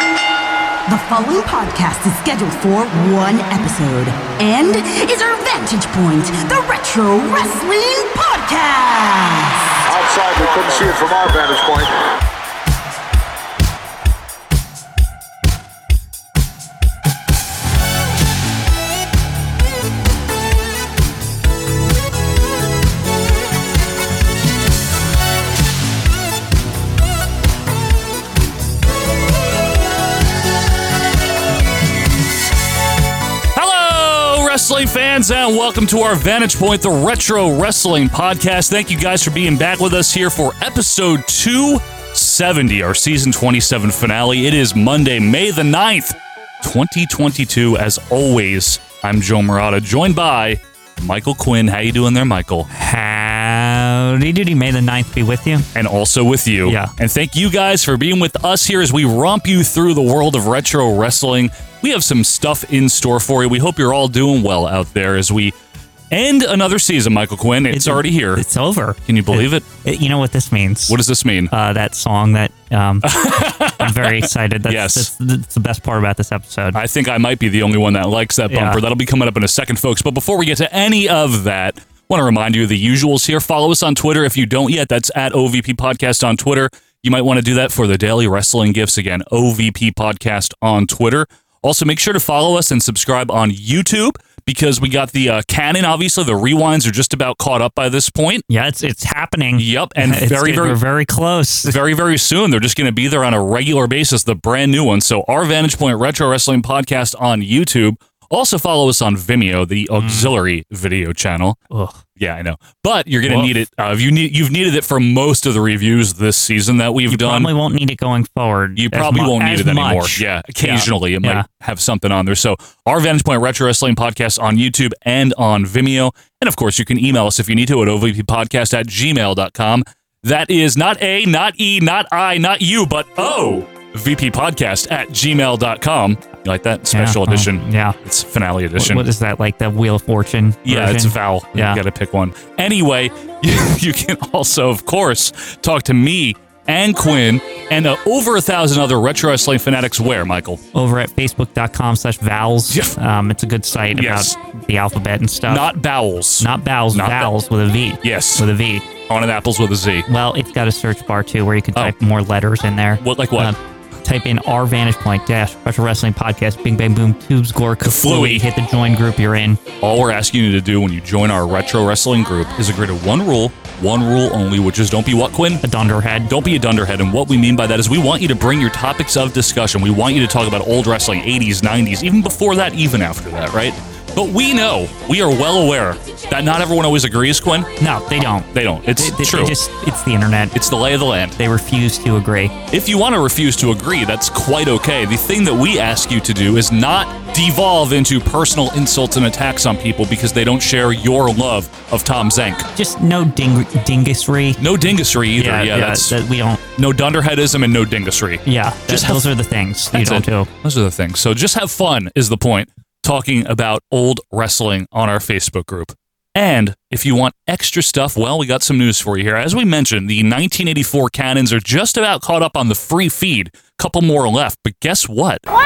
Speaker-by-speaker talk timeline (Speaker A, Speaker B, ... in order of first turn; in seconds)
Speaker A: 0.9-9.8
Speaker B: 9.9-11.9
Speaker C: 33.5-52.7, 55.7-65.5, 66.1-68.4, 69.0-69.6, 70.9-71.5, 73.0-75.1, 76.7-98.4, 99.5-100.8, 101.6-111.6, 112.2-117.5, 118.8-139.1, 140.7-150.6, 152.7-152.9, 153.9-154.3, 155.5-157.3, 158.0-158.4, 159.1-160.1, 163.0-163.5, 167.8-168.4, 169.8-175.6, 176.3-187.7, 188.5-189.6, 190.5-191.4, 192.7-202.7, 204.6-206.2, 206.8-209.3, 209.9-225.4
Speaker D: 52.7-55.7, 56.6-56.9, 67.7-71.0, 71.5-76.8, 78.5-78.8, 98.5-101.8, 110.0-110.3, 111.7-112.0, 117.1-121.5, 136.9-137.9, 138.8-141.8, 150.7-155.7, 156.4-158.8, 160.1-169.6, 175.6-176.3, 187.8-190.6, 191.4-192.5, 202.8-204.6, 205.3-206.6, 208.4-210.5